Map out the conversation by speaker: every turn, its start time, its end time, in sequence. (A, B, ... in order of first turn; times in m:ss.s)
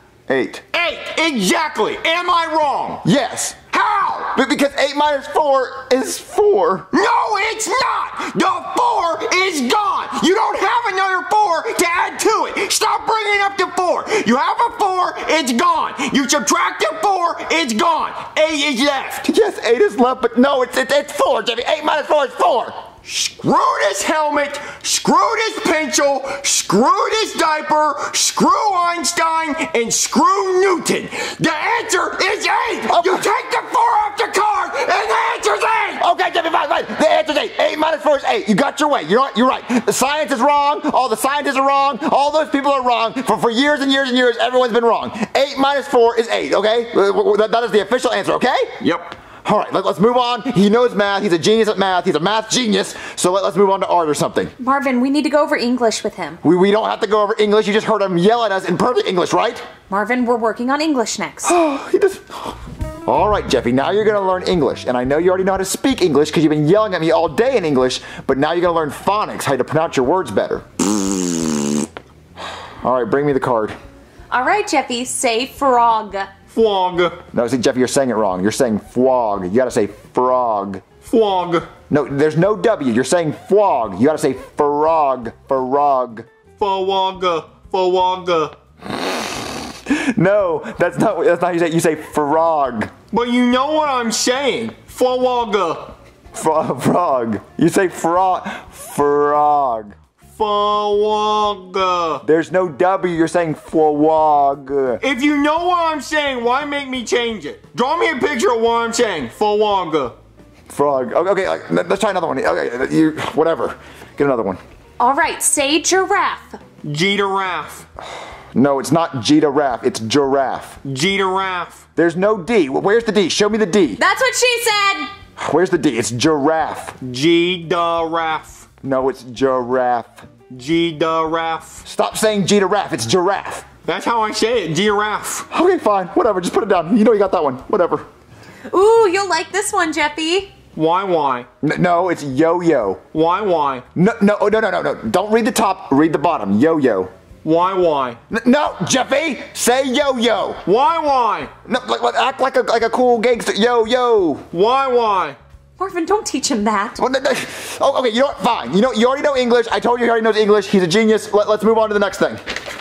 0:00.3-0:00.6 A
0:00.7-0:03.0 B
0:03.0-0:03.6 A
0:03.7-0:04.3 B
0:04.2-0:06.9 A
0:06.9-0:19.2 B
0:19.2-0:22.9 A
0:23.0-0:36.0 B
0:32.9-0:33.2 A
0:36.0-0:48.8 A
0:48.8-0:49.2 B
0:49.4-0:54.5 A
0:54.6-0:56.4 C
0:56.4-0:59.6 A
0:59.9-1:01.6 C
1:01.4-1:11.8 A
1:12.8-1:13.8 A
1:14.3-1:16.3 C
1:16.5-1:17.2 B
1:17.3-1:20.8 A
1:21.0-1:21.7 B
1:21.9-1:26.2 A
1:26.6-1:28.5 B
1:29.9-1:32.9 A
1:33.1-1:35.9 B
1:36.3-1:40.0 A
1:40.4-1:42.2 B
1:42.2-1:45.0 A
1:45.0-1:50.1 B
1:50.7-1:54.6 A
1:55.0-1:56.6 C
1:56.8-1:57.8 B
1:58.5-2:00.8 A
2:00.8-2:01.8 B
2:02.0-2:04.0 A
2:04.0-2:05.1 C
2:05.4-2:07.0 A
2:07.0-2:08.6 B
2:08.8-2:10.3 A
2:10.5-2:11.8 B
2:11.8-2:13.6 A
2:13.8-2:15.4 B
2:15.5-2:18.1 A
2:18.7-2:20.6 C
2:20.7-2:21.5 B
2:21.6-2:23.0 A
2:23.1-2:23.8 B
2:23.9-2:27.1 A
2:27.4-2:28.2 B
2:28.3-2:30.6 A
2:30.6-2:31.5 B
2:31.6-2:34.5 A
2:34.5-2:35.4 B
2:35.8-2:37.0 C
2:37.0-2:42.4 A